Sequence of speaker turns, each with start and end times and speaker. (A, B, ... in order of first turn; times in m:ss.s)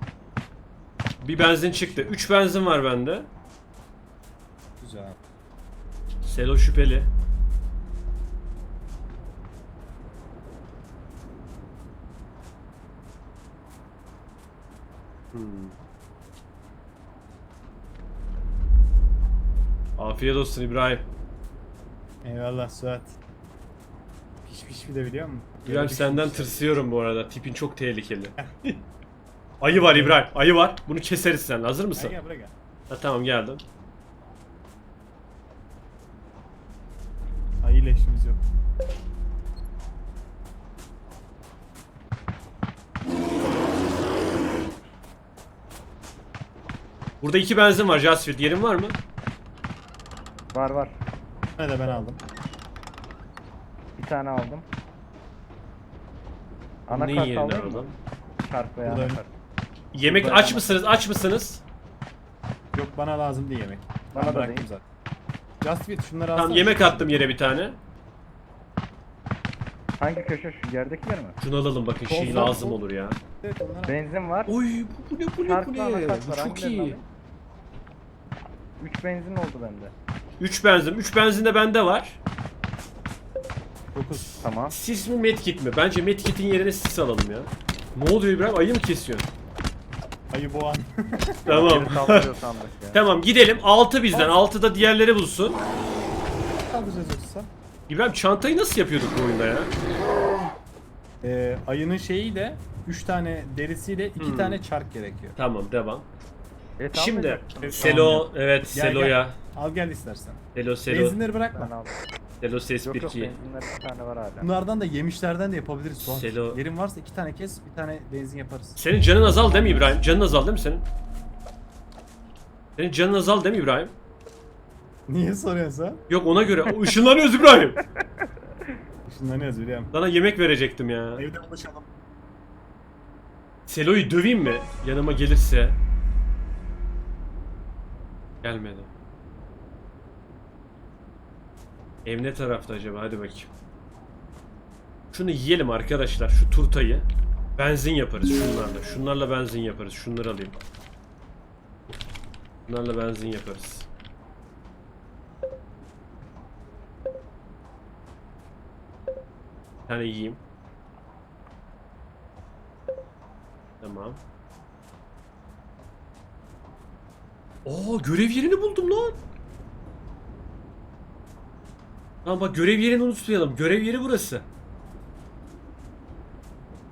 0:01.2-0:03.3 A
0:04.8-0:05.2 B
0:06.2-0:07.1 A
0:15.3-0:15.8 A
0:20.0-0:21.0 A
0:22.2-0:23.2 B
0:24.4-0:26.8 B
0:25.6-0:28.8 A
0:29.6-0:32.2 A
0:29.7-0:30.2 B
0:32.0-0:32.5 B
0:32.9-0:33.6 A
0:37.6-0:38.4 B
0:47.2-0:49.0 A
0:50.5-0:51.0 C
0:51.6-0:52.2 B
0:54.0-0:54.7 C
0:56.9-0:59.3 C
0:56.9-0:57.9 A
0:58.8-0:59.2 B
0:59.9-1:01.6 A
1:00.0-1:00.8 C
1:02.7-1:04.8 B
1:04.1-1:04.7 C
1:05.6-1:07.6 B
1:06.4-1:07.8 A
1:10.0-1:11.4 C
1:11.4-1:13.2 A
1:12.1-1:12.8 B
1:12.2-1:12.6 C
1:13.4-1:14.0 B
1:13.9-1:14.5 C
1:14.5-1:17.0 A
1:15.4-1:17.0 C
1:18.8-1:19.9 C
1:20.4-1:22.2 A
1:23.9-1:24.3 B
1:24.2-1:29.3 A
1:24.4-1:24.8 C
1:30.3-1:31.7 B
1:31.5-1:32.3 A
1:31.5-1:33.0 C
1:32.9-1:35.6 A
1:34.1-1:34.4 B
1:36.6-1:37.5 B
1:37.9-1:39.7 A
1:41.2-1:45.4 B
1:44.2-1:44.6 A
1:45.4-1:46.1 A
1:46.8-1:48.1 C
1:46.9-1:49.4 A
1:47.6-1:51.7 B
1:50.6-1:51.2 A
1:51.5-1:52.0 C
1:52.4-1:53.4 A
1:52.8-1:54.5 C
1:54.4-1:58.8 B
1:56.0-1:56.6 A
1:58.8-2:00.8 A
1:59.4-1:59.9 B
2:02.8-2:03.9 A
2:05.1-2:06.0 B
2:06.1-2:07.8 A
2:09.1-2:09.9 B
2:09.9-2:11.3 A
2:11.2-2:11.9 B
2:13.7-2:15.8 A
2:18.4-2:18.9 A
2:22.0-2:23.5 A
2:25.1-2:30.6 A
2:32.7-2:33.9 A
2:39.9-2:40.4 A
2:43.8-2:44.2 A
2:47.6-2:49.2 A
2:52.2-2:54.4 A